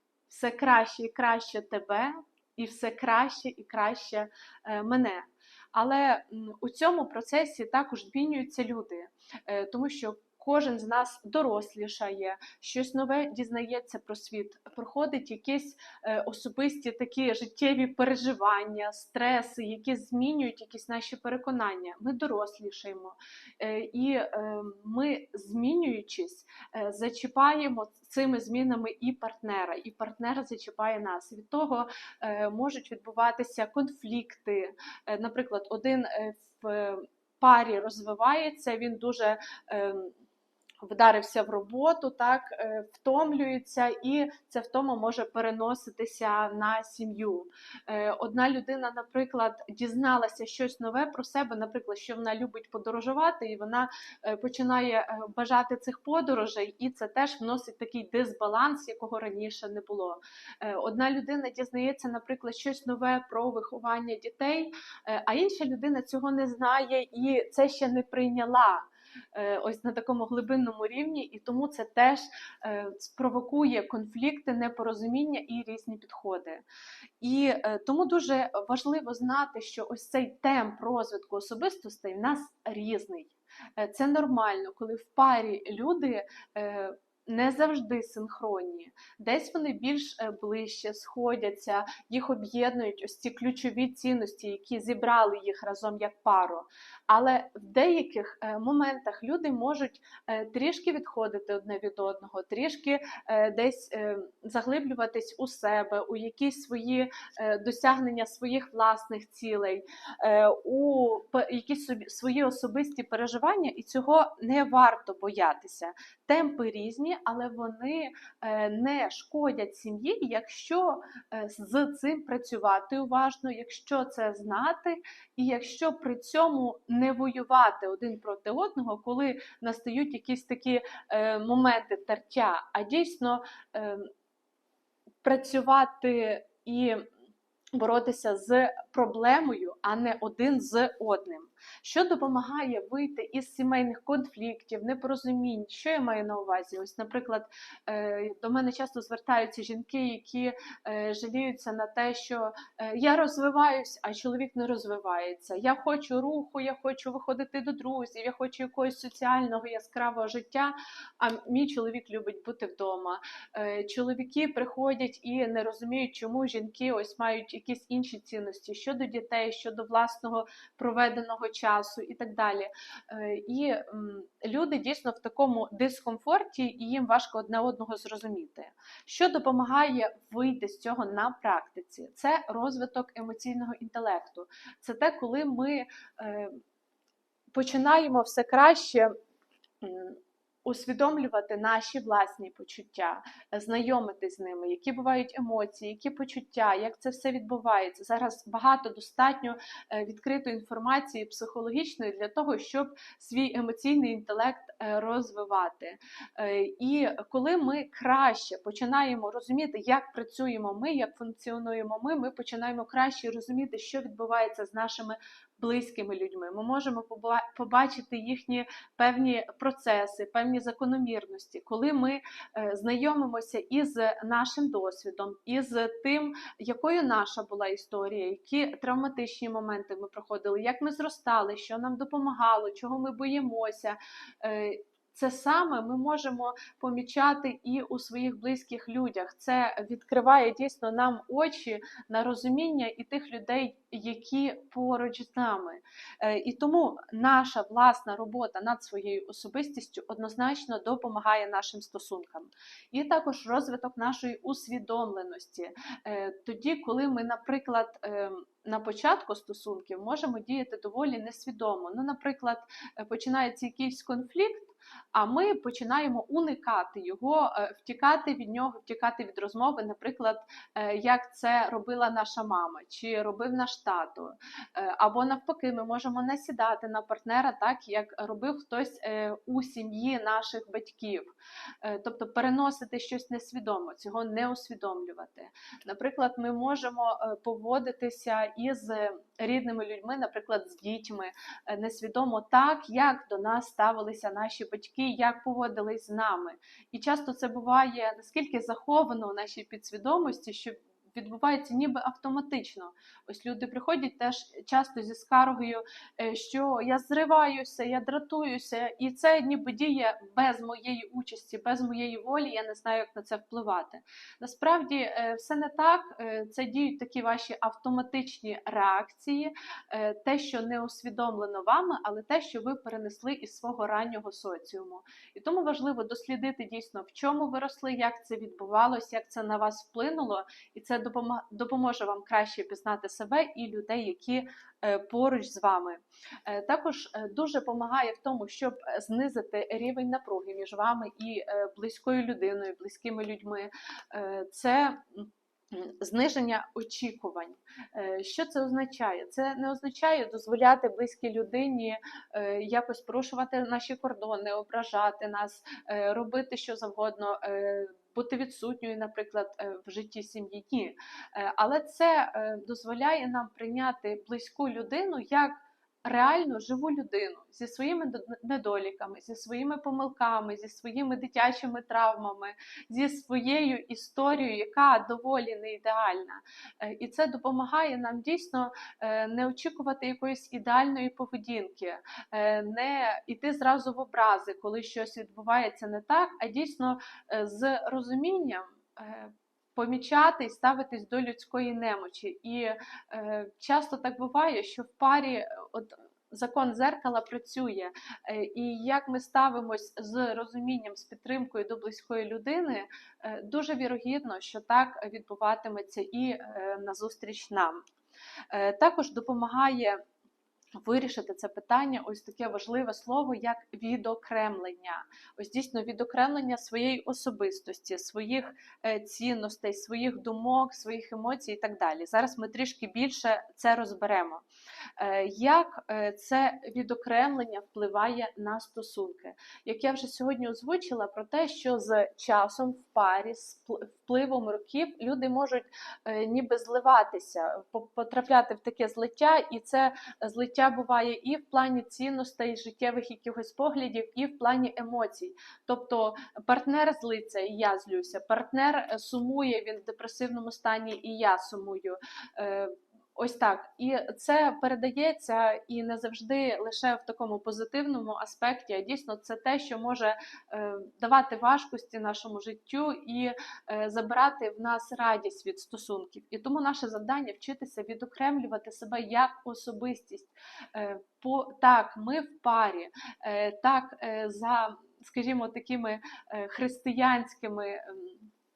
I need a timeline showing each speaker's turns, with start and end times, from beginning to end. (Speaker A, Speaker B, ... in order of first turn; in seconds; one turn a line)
Speaker A: 0.3-40.1
Speaker A: 40.8-76.7
Speaker A: 77.2-134.1
Speaker A: 135.2-137.1
Speaker A: 137.8-186.6
Speaker A: 187.5-189.1
Speaker A: 189.8-407.9
Speaker A: 408.5-410.0
Speaker A: 410.8-424.4
Speaker A: 425.0-478.3